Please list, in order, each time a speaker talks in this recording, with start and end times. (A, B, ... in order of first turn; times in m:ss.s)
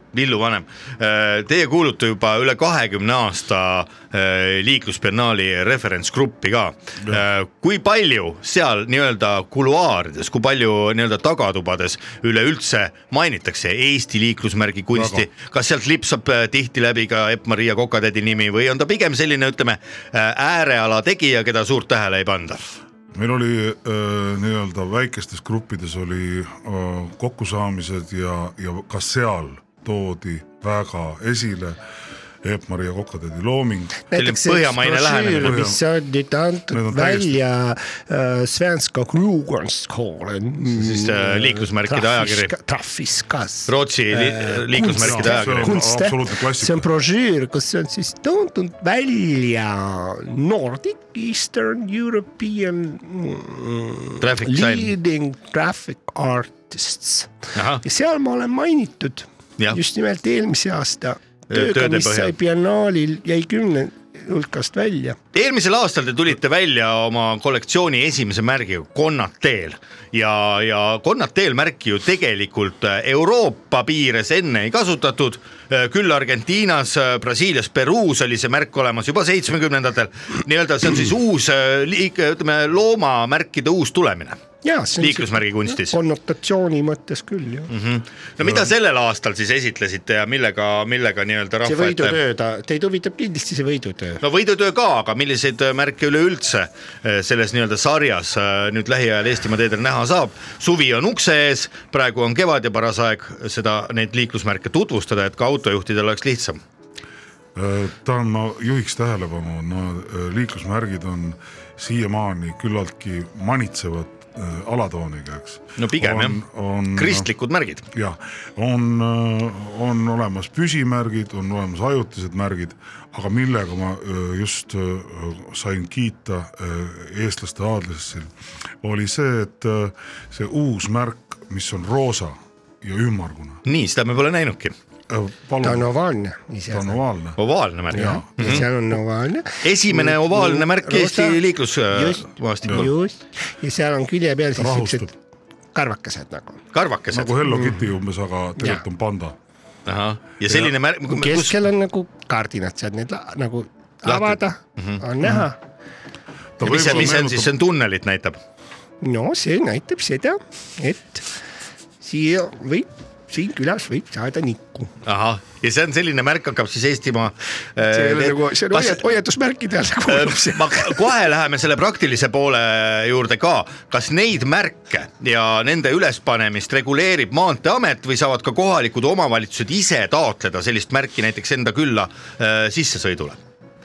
0:00.1-0:22.6 A
0:14.9-0:15.2 B
0:23.1-0:31.8 B
0:32.4-0:34.0 B
0:34.1-1:05.2 C
0:34.1-0:35.6 A
0:35.4-0:35.8 B
0:36.7-0:37.4 B
0:40.7-0:42.5 A
0:43.7-0:45.8 A
0:45.0-0:46.9 B
0:54.2-0:54.9 A
0:57.5-0:57.8 A
1:01.5-1:02.3 A
1:05.3-1:24.4 A
1:24.6-1:27.7 C
1:25.0-1:26.0 A
1:27.7-1:32.2 A
1:31.6-1:34.2 C
1:34.2-1:46.6 A
1:47.5-1:57.2 B
1:55.8-1:56.4 A
1:57.0-1:57.8 A
1:57.9-2:08.3 B
2:08.8-2:13.6 B
2:13.6-2:14.8 A
2:15.1-2:15.9 B
2:15.6-2:17.0 C
2:16.7-2:17.4 B
2:17.4-2:18.6 A
2:17.9-2:18.8 B
2:17.9-2:25.1 C
2:19.6-2:22.9 A
2:24.6-2:25.1 B
2:25.7-2:26.6 C
2:26.7-2:27.4 A
2:27.1-2:29.4 B
2:27.5-2:27.9 C
2:28.6-2:28.8 C
2:29.9-2:31.6 A
2:31.1-2:35.6 C
2:34.0-2:35.0 A
2:36.6-2:37.5 B
2:36.6-2:38.4 A
2:39.0-2:41.3 C
2:42.0-2:44.9 C
2:45.0-2:49.0 A
2:47.8-2:51.1 C
2:50.1-3:03.4 A